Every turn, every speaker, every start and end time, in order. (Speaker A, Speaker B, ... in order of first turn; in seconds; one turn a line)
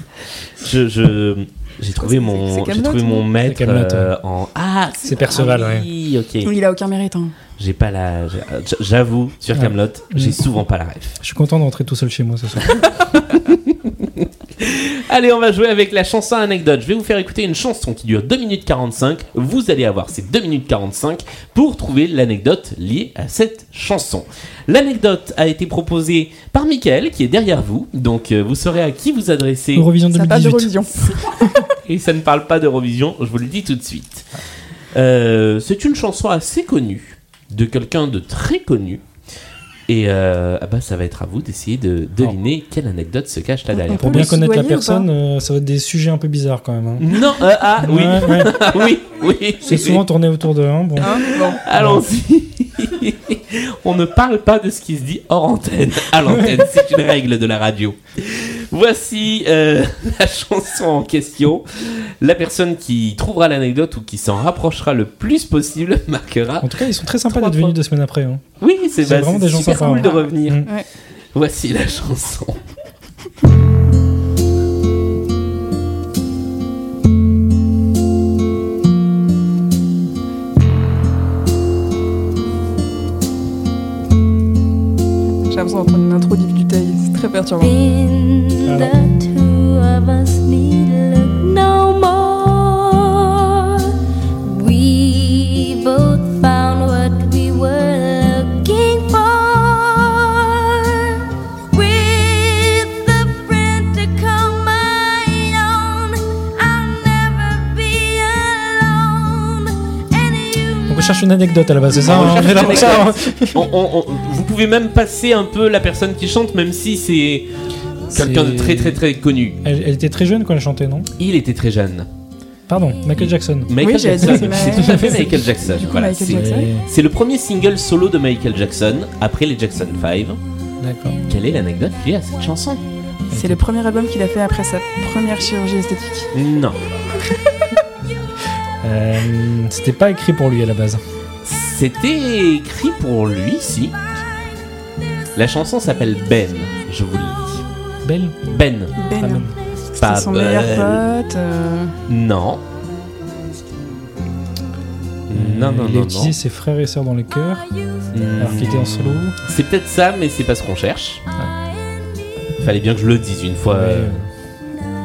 Speaker A: 0.6-6.5
Speaker B: 2.0-3.3
Speaker C: 3.4-4.1
Speaker C: 5.0-5.9
Speaker B: 6.4-7.3
Speaker A: 7.6-11.2
Speaker C: 9.5-10.4
Speaker C: 11.2-12.8
Speaker A: 12.7-29.9
Speaker C: 29.7-30.9
Speaker B: 30.1-31.5
Speaker A: 31.8-34.3
Speaker A: 34.9-39.0
Speaker A: 39.9-44.3
Speaker B: 43.7-45.1
Speaker C: 43.9-47.0
Speaker A: 47.0-50.0
Speaker C: 47.8-48.6
Speaker C: 49.6-52.0
Speaker B: 51.0-51.6
Speaker A: 51.6-67.8
Speaker C: 56.3-56.6
Speaker C: 66.6-68.4
Speaker A: 68.6-70.7
Speaker C: 69.0-70.7
Speaker B: 69.7-70.9
Speaker A: 71.3-72.6
Speaker B: 85.5-87.7
Speaker D: 87.6-111.0
Speaker C: 88.7-88.9
Speaker C: 110.9-113.7
Speaker A: 112.0-117.5
Speaker A: 118.1-119.6
Speaker C: 118.1-119.0
Speaker C: 119.6-121.1
Speaker A: 121.2-122.1
Speaker C: 122.7-125.4
Speaker A: 123.2-130.4
Speaker B: 123.8-126.7
Speaker C: 126.3-126.9
Speaker C: 130.8-131.2
Speaker A: 131.3-132.8
Speaker C: 133.3-133.6
Speaker B: 133.3-136.3
Speaker A: 136.3-136.8
Speaker C: 138.8-141.0
Speaker A: 141.4-144.0
Speaker A: 145.3-147.6
Speaker C: 148.0-148.4
Speaker A: 148.5-148.9
Speaker B: 148.9-151.9
Speaker C: 149.2-149.6
Speaker A: 150.0-151.0
Speaker A: 152.1-152.6
Speaker A: 155.3-156.3
Speaker C: 155.3-157.7
Speaker A: 158.1-161.2
Speaker C: 158.4-159.3
Speaker A: 162.6-164.2
Speaker C: 163.7-164.2